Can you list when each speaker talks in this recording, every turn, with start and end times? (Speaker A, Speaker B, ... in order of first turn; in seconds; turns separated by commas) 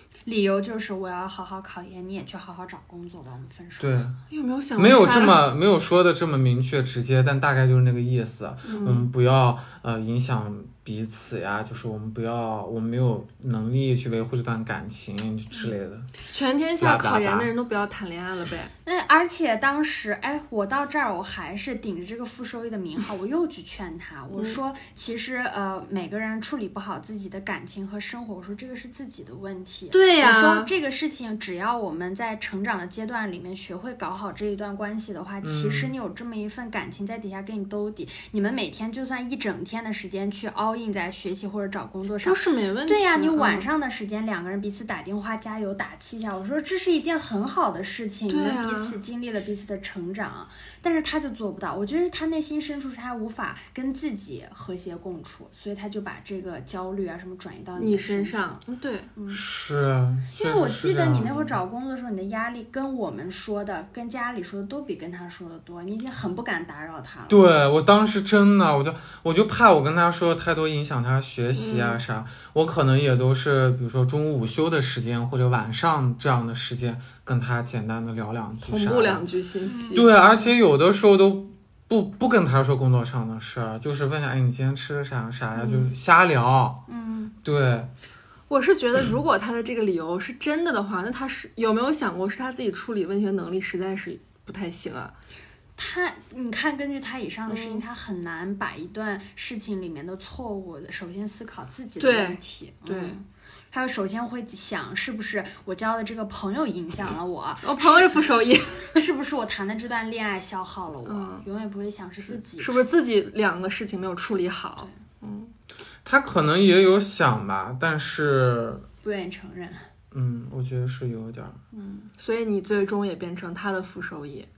Speaker A: 0.2-4.0, Speaker B: 3.8-4.2, Speaker C: 4.3-5.4, Speaker B: 4.8-16.1, Speaker C: 8.7-9.1, Speaker C: 16.3-18.7, Speaker B: 16.8-17.5, Speaker A: 18.8-58.6, Speaker C: 29.9-30.7, Speaker B: 35.4-35.9, Speaker C: 42.2-43.7, Speaker C: 48.3-49.0, Speaker C: 57.8-59.1, Speaker A: 59.1-59.4, Speaker B: 59.3-61.5, Speaker A: 60.3-67.5, Speaker B: 67.3-79.3, Speaker C: 71.5-72.0, Speaker C: 78.6-80.1, Speaker A: 79.7-80.0, Speaker B: 79.9-86.8, Speaker C: 85.5-85.9, Speaker A: 86.9-87.3, Speaker B: 87.4-87.9, Speaker C: 88.5-95.1, Speaker A: 95.8-108.3, Speaker C: 97.5-97.8, Speaker C: 102.0-103.2, Speaker C: 107.6-109.0, Speaker A: 108.9-112.8, Speaker C: 111.0-111.4, Speaker C: 112.3-115.5, Speaker B: 116.0-118.8, Speaker A: 119.0-119.8, Speaker B: 120.1-121.6, Speaker A: 121.7-122.1, Speaker C: 122.2-124.5